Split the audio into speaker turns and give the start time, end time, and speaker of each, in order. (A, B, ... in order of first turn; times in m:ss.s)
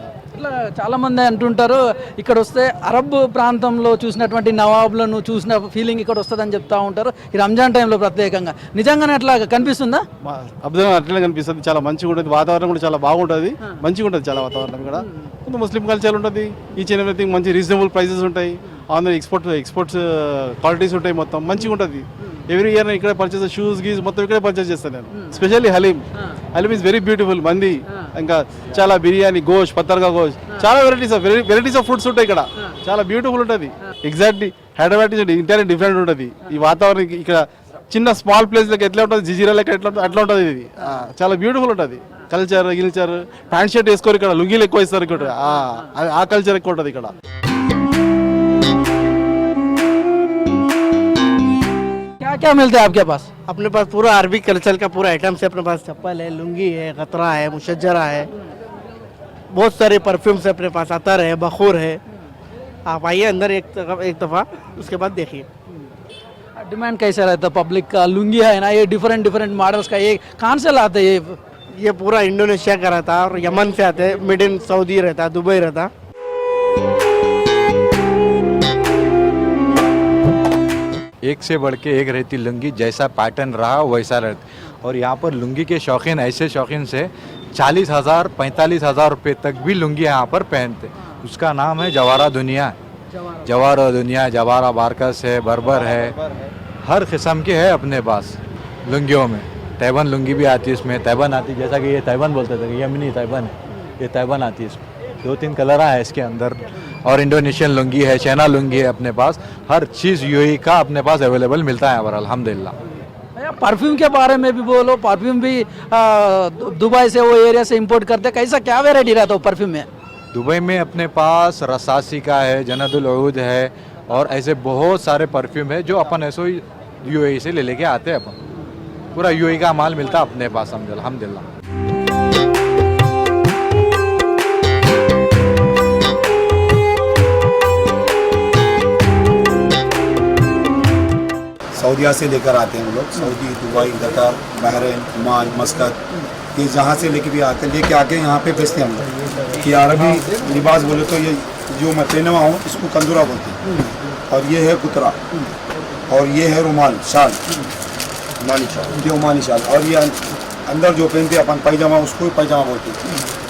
0:00.3-0:10.0 A
0:10.2-0:47.1 B
0:52.2-0:53.3 A
0:53.5-0:58.3 C
0:59.5-1:02.0 C
1:02.8-1:05.4 C
1:06.7-1:11.4 A
1:11.8-1:15.9 C
1:21.2-1:32.8 D
1:33.4-1:36.2 D
1:36.8-1:52.7 D
1:53.4-1:59.9 A
2:00.3-2:08.3 D
2:09.1-2:11.4 D
2:21.7-2:26.0 E
2:26.5-2:29.0 E
2:29.6-2:33.6 E
2:34.3-2:35.2 E
2:36.1-2:37.4 E
2:38.4-2:43.0 E